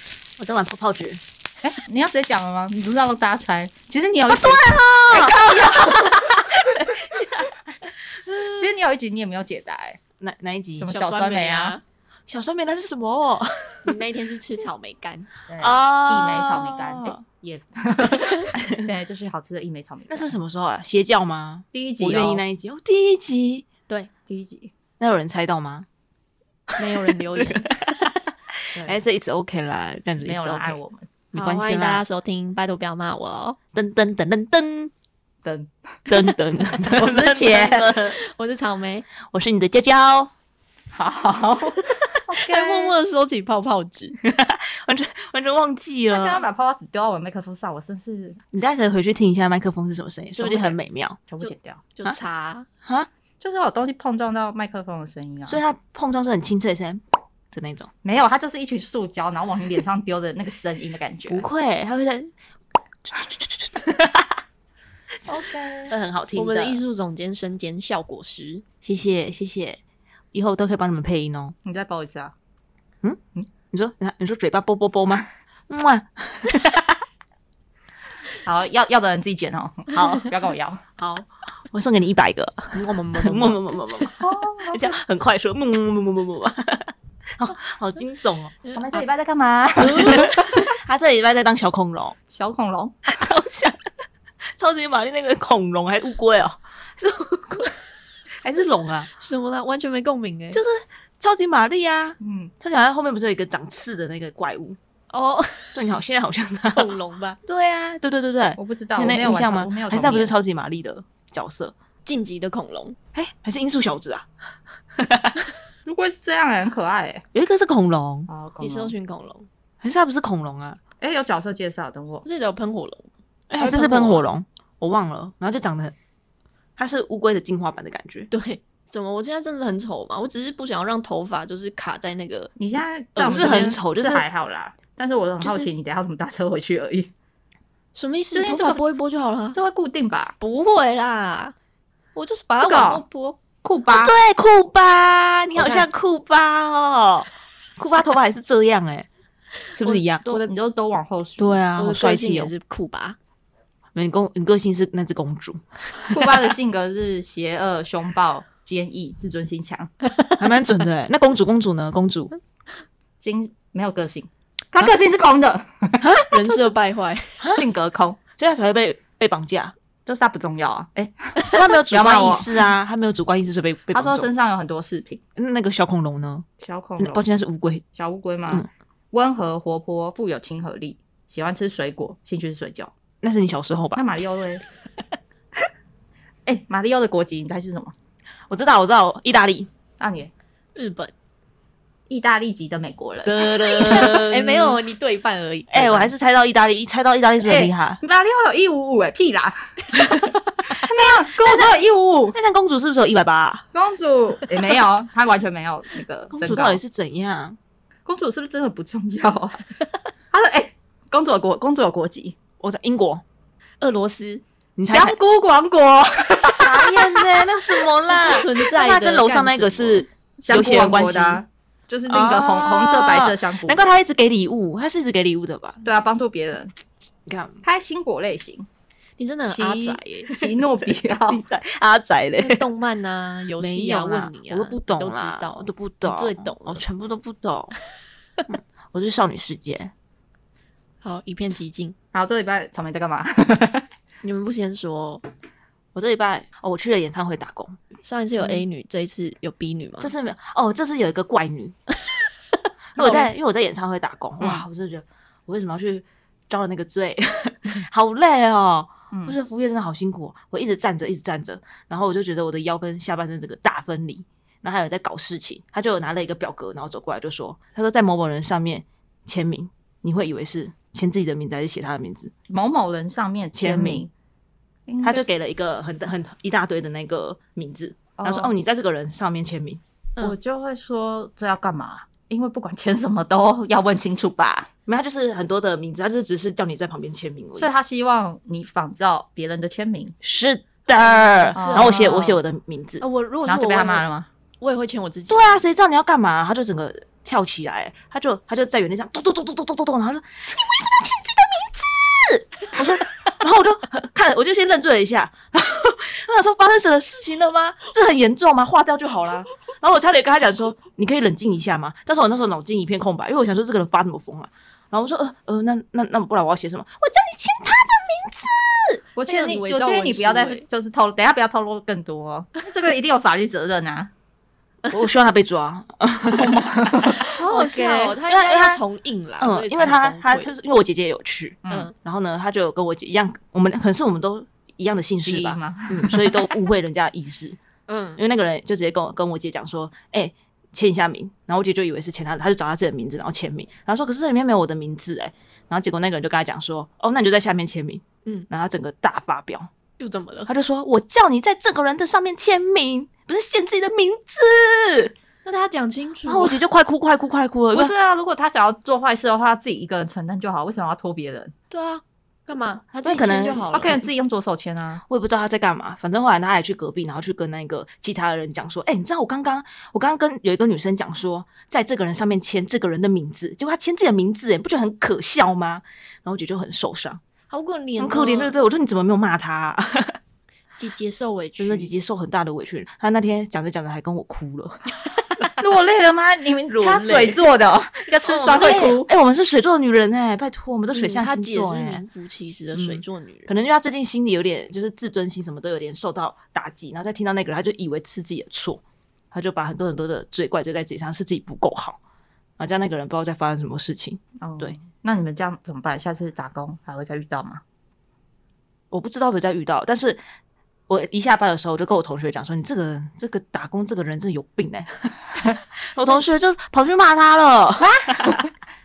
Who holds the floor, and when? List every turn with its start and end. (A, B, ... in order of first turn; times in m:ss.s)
0:00.4-0:01.2 A
0:01.6-0:06.6 B
0:04.3-0:07.5 A
0:08.2-0:08.6 A
0:08.6-0:10.0 B
0:10.2-0:10.9 A
0:10.7-0:11.8 B
0:10.9-0:11.8 C
0:12.3-0:13.9 A
0:13.8-0:15.3 C
0:15.5-0:20.4 B
0:15.6-0:17.2 A
0:18.5-0:18.8 A
0:20.1-0:23.6 A
0:21.7-0:22.4 B
0:24.3-0:24.7 B
0:25.0-0:25.9 A
0:26.7-0:28.1 A
0:26.8-0:28.0 C
0:28.7-0:30.8 A
0:30.2-0:31.1 B
0:31.3-0:32.0 A
0:31.3-0:33.6 C
0:33.7-0:34.9 A
0:35.4-0:35.7 B
0:36.1-0:38.2 A
0:36.9-0:39.1 C
0:39.3-0:40.3 A
0:40.9-0:43.0 B
0:42.1-0:44.1 C
0:44.2-0:46.4 A
0:46.1-0:48.4 B
0:48.5-0:51.2 A
0:50.4-0:51.8 B
0:51.4-0:52.7 C
0:53.4-0:55.6 B
0:55.5-0:57.9 A
0:58.0-1:01.4 B
1:01.3-1:02.3 A
1:03.1-1:04.2 A
1:05.2-1:06.8 A
1:05.3-1:05.9 B
1:06.3-1:08.6 C
1:08.8-1:09.8 A
1:10.3-1:11.5 A
1:11.6-1:12.3 B
1:13.0-1:17.0 A
1:18.4-1:20.8 B
1:19.9-1:20.4 A
1:21.0-1:28.5 A
1:22.7-1:23.6 C
1:24.2-1:25.0 B
1:28.6-1:29.0 C
1:28.7-1:30.6 B
1:29.8-1:32.2 A
1:29.8-1:30.4 C
1:32.3-1:33.0 B
1:33.1-1:33.8 A
1:34.6-1:37.7 A
1:38.4-1:39.1 A
1:39.2-1:40.6 C
1:40.5-1:44.8 A
1:42.2-1:42.5 B
1:45.1-1:45.8 C
1:45.7-1:51.7 A
1:46.7-1:47.4 C
1:48.6-1:50.3 B
1:52.0-1:53.0 C
1:53.1-1:54.2 A
1:55.0-1:55.4 A
1:55.8-1:57.2 B
1:57.3-1:58.3 A
1:58.3-1:58.9 B
1:58.6-1:59.5 C
1:59.8-2:00.8 A
2:01.0-2:02.2 B
2:02.2-2:03.1 C
2:03.5-2:05.9 A
2:03.6-2:04.2 C
2:03.6-2:04.2 B
2:06.8-2:08.3 A
2:08.3-2:12.5 C
2:12.6-2:17.1 B
2:13.2-2:13.8 C
2:13.2-2:14.2 A
2:15.4-2:15.7 C
2:17.9-2:19.6 C
2:18.3-2:18.8 B
2:19.5-2:20.4 B
2:20.4-2:21.5 C
2:22.1-2:23.4 C
2:22.6-2:23.0 B
2:23.6-2:24.1 B
2:23.9-2:29.1 A
2:25.5-2:25.9 B
2:29.7-2:30.3 A
2:29.9-2:31.6 B
2:31.4-2:32.5 A
2:31.8-2:33.2 C
2:33.9-2:36.3 A
2:36.1-2:39.9 B
2:40.4-2:42.3 A
2:43.2-2:46.5 B
2:46.3-2:47.4 C
2:47.5-2:48.2 B
2:48.4-2:49.7 A
2:50.0-2:52.6 B
2:51.4-2:54.3 A
2:53.9-2:55.2 B
2:55.4-2:56.4 A
2:56.6-2:57.2 B
2:57.0-2:57.8 A
2:57.9-3:02.9 B
3:03.2-3:04.0 A
3:03.9-3:04.6 B
3:06.4-3:07.9 B
3:08.5-3:09.7 A
3:10.0-3:10.3 B
3:10.8-3:11.1 C
3:12.1-3:14.3 B
3:13.2-3:14.8 A
3:13.7-3:16.1 C
3:15.7-3:18.0 A
3:17.4-3:22.4 B
3:20.7-3:21.7 A
3:22.3-3:23.6 A
3:23.7-3:26.8 B
3:26.3-3:27.6 A
3:28.0-3:29.6 B
3:30.3-3:32.4 B
3:32.6-3:33.2 A
3:33.8-3:34.4 C
3:34.8-3:35.2 A
3:34.9-3:37.9 B
3:36.4-3:41.4 A
3:38.2-3:40.0 C
3:40.4-3:43.9 B
3:42.1-3:45.8 A
3:45.8-3:46.7 B
3:47.3-3:47.6 A
3:47.6-3:48.7 B
3:49.2-3:50.3 C
3:49.5-3:51.4 B
3:51.3-3:52.6 A
3:52.4-3:56.8 C
3:53.6-3:57.7 A
3:58.9-3:59.9 A
4:01.0-4:02.0 C
4:02.1-4:03.9 B
4:04.2-4:05.2 C
4:05.9-4:07.8 A
4:08.0-4:10.1 C
4:10.0-4:11.8 A
4:13.0-4:32.3 A
4:13.0-4:13.2 B
4:13.0-4:13.2 C
4:14.4-4:14.7 B
4:32.5-4:34.1 B
4:33.5-4:34.0 A
4:34.9-4:35.2 B
4:35.0-4:39.8 A
4:38.2-4:38.5 B
4:40.2-4:44.7 B
4:44.8-4:47.7 A
4:47.6-4:50.2 B
4:50.2-4:53.0 A
4:51.5-4:52.4 C
4:51.5-4:52.3 B
4:53.0-4:54.0 C
4:53.4-4:54.3 B
4:54.6-4:55.6 C
4:55.3-5:19.0 A
5:19.2-5:24.1 B
5:19.2-5:20.6 C
5:24.9-5:28.8 A
5:26.2-5:27.3 B
5:27.2-5:30.5 C
5:29.4-5:37.6 A
5:31.6-5:31.9 B
5:35.2-5:36.5 B
5:37.9-5:38.2 C
5:38.2-5:49.7 A
5:50.0-5:50.5 C
5:50.5-5:55.1 A
5:55.4-5:56.6 C
5:56.3-5:57.9 A
5:57.7-6:01.5 B
6:01.7-6:04.0 C
6:03.0-6:03.9 A
6:03.7-6:05.0 B
6:05.1-6:17.2 A
6:17.5-6:18.5 C
6:18.0-6:20.2 A
6:20.8-6:21.9 C
6:21.6-6:24.9 A
6:25.6-6:29.1 B
6:26.7-6:27.4 A
6:28.2-6:29.0 C
6:28.5-6:32.0 A
6:30.9-6:33.5 C
6:32.7-6:38.8 A
6:39.3-6:42.0 A
6:42.6-6:44.8 A
6:44.4-6:47.6 B
6:48.9-6:50.2 A
6:50.9-6:58.5 A
6:57.8-6:58.5 B